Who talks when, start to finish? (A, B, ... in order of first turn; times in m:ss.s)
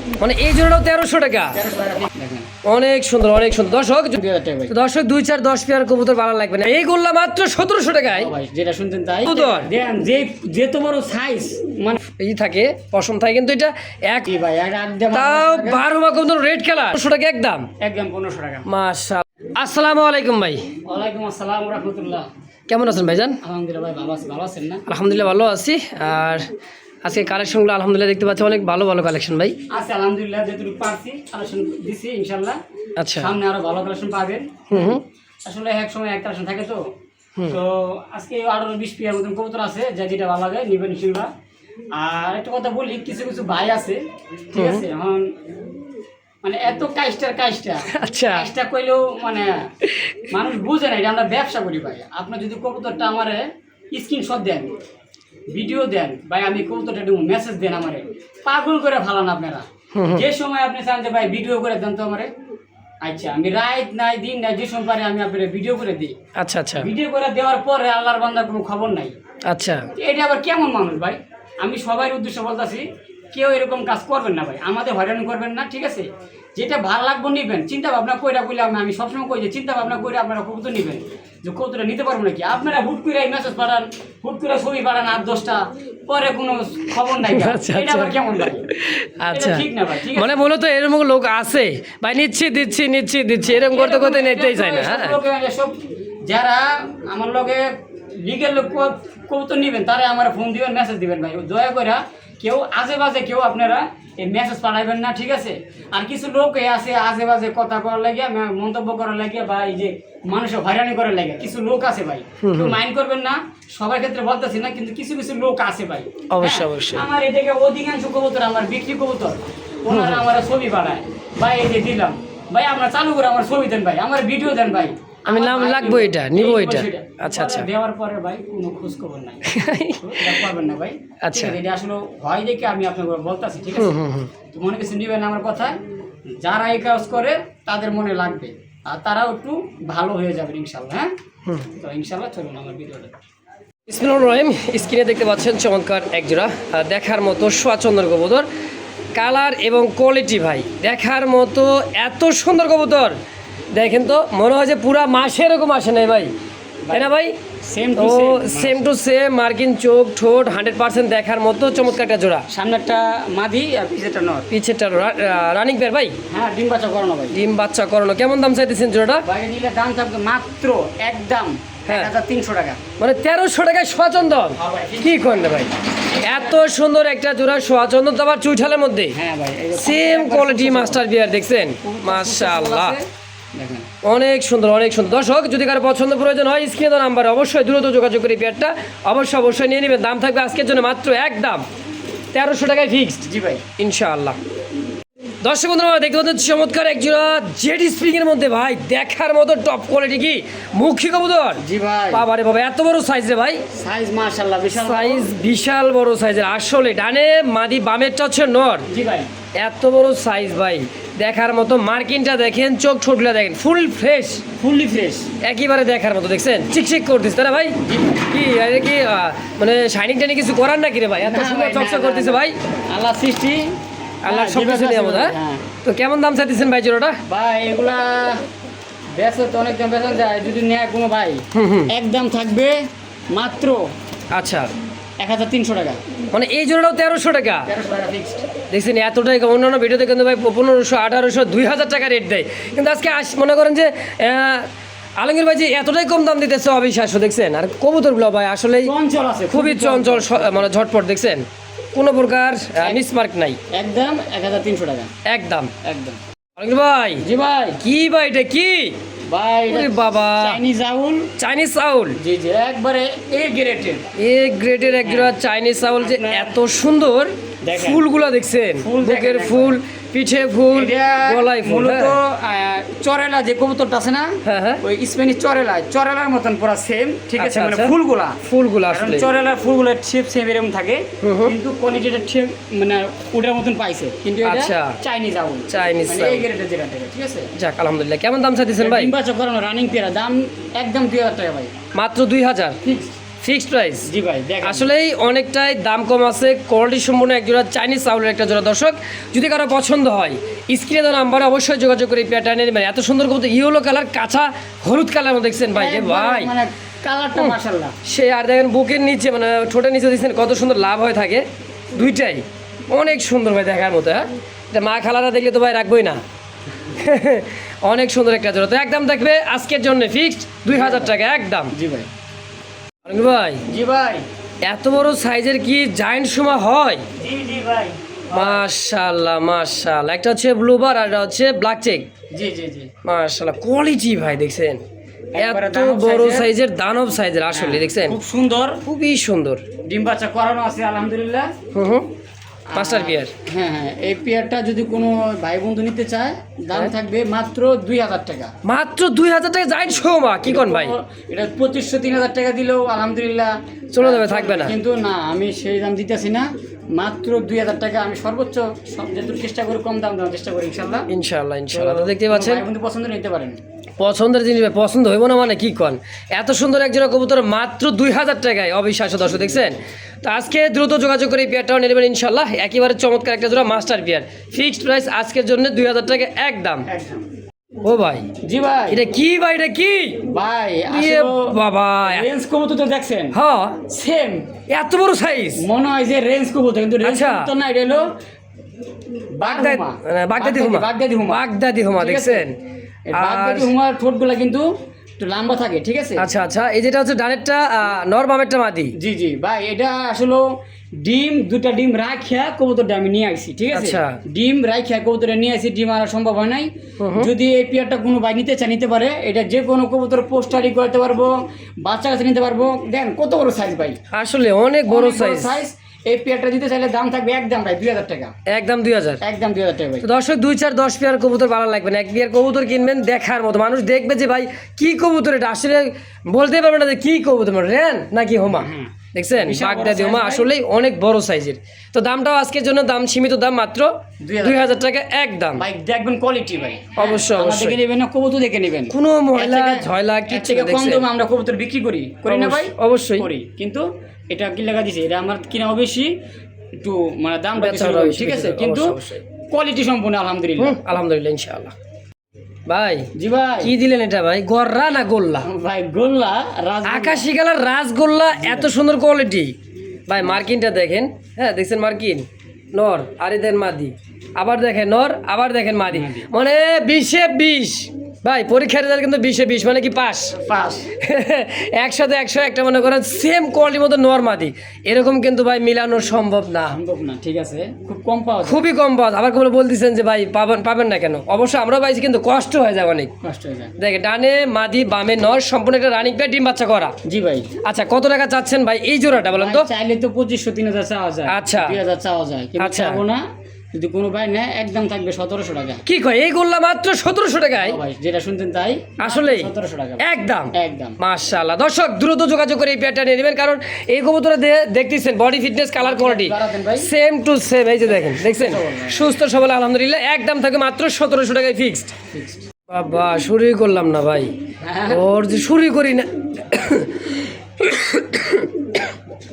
0:00.2-0:01.6 A
0:01.5-0:02.5 B
0:02.6-0:08.3 A
0:04.2-0:04.7 B
0:08.1-0:12.0 B
0:09.2-0:09.7 A
0:12.1-0:14.3 A
0:14.2-0:15.8 B
0:15.1-0:17.7 A
0:17.8-0:18.7 B
0:18.7-0:20.6 A
0:20.9-0:22.3 B
0:22.7-0:23.4 A
0:23.4-0:24.8 B
0:24.9-0:26.4 A
0:27.0-0:29.6 A
0:29.7-0:32.6 B
0:33.0-0:33.4 A
0:33.2-0:36.8 B
0:34.7-0:35.0 A
0:37.5-0:41.3 B
0:41.9-0:45.3 B
0:44.6-0:44.8 A
0:46.4-0:49.6 B
0:47.9-0:48.5 A
0:50.3-0:54.7 B
0:55.5-1:02.3 B
1:00.0-1:00.2 A
1:03.0-1:06.2 B
1:06.4-1:06.9 A
1:06.8-1:09.2 B
1:09.5-1:09.9 A
1:10.0-1:28.7 B
1:27.2-1:35.2 A
1:29.3-1:30.4 B
1:33.5-2:14.0 B
1:52.4-1:52.8 A
1:56.3-1:57.1 A
1:59.9-2:00.3 A
2:05.3-2:07.7 A
2:09.5-2:10.5 A
2:11.2-2:11.6 A
2:13.8-2:14.3 A
2:14.5-2:15.8 B
2:16.4-2:21.1 B
2:21.7-2:23.1 B
2:23.9-2:28.5 A
2:29.2-2:33.2 A
2:33.7-2:36.3 A
2:36.9-2:37.3 A
2:37.7-2:38.8 B
2:38.0-2:42.5 A
2:42.5-2:44.5 B
2:44.5-2:46.1 A
2:46.3-2:47.4 B
2:47.3-2:49.2 A
2:49.2-2:52.8 B
2:51.9-2:52.1 A
2:53.0-2:59.2 A
2:54.6-2:55.4 B
2:56.1-2:56.6 B
2:59.2-3:01.0 B
2:59.8-3:03.0 A
3:01.8-3:03.0 B
3:03.6-3:03.9 B
3:04.0-3:11.6 A
3:12.3-3:14.4 A
3:13.3-3:13.6 B
3:15.4-3:23.6 A
3:21.6-3:22.2 B
3:23.7-3:25.3 B
3:24.8-3:28.9 A
3:28.9-3:29.3 B
3:29.6-3:34.4 A
3:34.6-3:35.3 B
3:35.4-3:37.8 A
3:37.8-3:38.3 B
3:38.3-3:42.6 A
3:41.2-3:43.6 B
3:44.2-3:47.2 A
3:44.3-3:45.6 B
3:47.3-3:48.4 B
3:49.2-3:52.8 B
3:51.5-3:51.9 A
3:53.3-3:53.8 B
3:54.3-3:54.7 A
3:55.2-3:56.0 B
3:56.3-3:57.7 A
3:57.7-3:58.5 B
3:58.7-4:08.9 A
4:08.8-4:10.7 B
4:09.5-4:11.4 A
4:12.0-4:13.6 A
4:13.7-4:15.1 B
4:15.3-4:15.7 A
4:15.8-4:16.2 B
4:16.6-4:17.2 A
4:17.2-4:17.8 B
4:17.8-4:19.0 A
4:19.3-4:21.3 B
4:19.7-4:20.6 A
4:21.4-4:22.2 A
4:22.2-4:24.0 B
4:24.2-4:32.2 A
4:25.0-4:25.3 B
4:26.0-4:26.6 B
4:27.6-4:28.0 B
4:28.8-4:29.8 B
4:30.7-4:47.5 B
4:34.4-4:34.8 A
4:37.4-4:39.3 A
4:41.2-4:41.5 A
4:44.4-4:45.0 A
4:45.7-4:46.4 A
4:47.6-4:49.1 A
4:48.8-4:51.8 B
4:52.0-4:52.8 A
4:52.8-4:53.2 B
4:53.4-4:54.1 A
4:54.0-4:54.9 B
4:54.6-5:06.5 A
5:05.7-5:08.0 B
5:08.0-5:11.4 A
5:12.0-5:16.2 A
5:16.9-5:21.7 A
5:20.7-5:21.1 B
5:21.7-5:22.1 B
5:23.0-5:23.6 A
5:23.7-5:24.2 B
5:24.6-5:27.0 A
5:27.2-5:28.6 B
5:28.3-5:32.1 A
5:32.3-5:32.9 B
5:33.0-5:34.8 A
5:35.4-5:36.5 B
5:35.4-5:38.2 A
5:37.5-5:38.8 B
5:38.8-5:39.6 A
5:39.9-5:41.5 B
5:41.7-5:42.1 A
5:42.7-5:48.5 B
5:42.8-5:43.3 A
5:48.6-5:50.9 A
5:50.4-6:01.1 B
5:53.9-5:54.8 A
6:01.1-6:02.7 A
6:01.7-6:03.6 B
6:04.0-6:16.9 A
6:16.9-6:17.2 B
6:17.8-6:18.3 A
6:18.4-6:19.0 B
6:18.9-6:20.2 A
6:20.3-6:23.4 B
6:20.9-6:22.3 A
6:23.3-6:23.8 A
6:23.9-6:24.6 B
6:24.7-6:25.6 A
6:25.6-6:28.1 B
6:27.0-6:27.5 A
6:29.4-6:31.4 B
6:29.4-6:32.6 A
6:32.0-6:32.5 B
6:33.1-6:34.7 B
6:33.2-6:33.7 A
6:35.2-6:36.2 B
6:36.2-6:38.9 A
6:39.0-6:40.4 B
6:41.0-6:51.3 B
6:43.7-6:44.2 A
6:47.0-6:47.3 A
6:51.8-6:54.0 B
6:54.1-6:55.6 A
6:54.9-6:58.3 B
6:58.5-6:59.2 A
6:59.2-7:00.1 B
7:00.0-7:13.9 A
7:08.6-7:10.5 B
7:14.2-7:14.8 B
7:14.4-7:15.6 A
7:15.6-7:26.1 B
7:17.0-7:17.8 A
7:18.9-7:21.1 A
7:22.3-7:23.3 A
7:26.8-7:30.8 B
7:27.6-7:29.2 A
7:30.6-7:31.8 A
7:32.7-7:33.1 A
7:33.2-7:33.7 B
7:33.6-7:35.5 A
7:35.4-7:37.3 B
7:36.8-7:39.5 A
7:38.4-7:38.7 B
7:40.1-7:50.4 A
7:45.9-7:46.3 B
7:50.3-7:50.9 B
7:51.0-7:56.8 A
7:56.7-7:58.6 B
7:58.4-8:03.1 A
8:03.2-8:03.7 B
8:03.8-8:06.9 A
8:07.1-8:07.5 B
8:07.6-8:09.7 A
8:09.4-8:13.2 B
8:11.3-8:11.8 A
8:12.6-8:13.0 A
8:13.7-8:15.8 B
8:15.9-8:17.8 A
8:17.6-8:21.0 B
8:19.0-8:19.5 A
8:20.0-8:32.0 A
8:25.8-8:26.9 B
8:27.9-8:29.0 B
8:32.1-8:32.5 B
8:32.7-8:34.3 A
8:34.6-8:35.0 B
8:34.9-8:38.8 A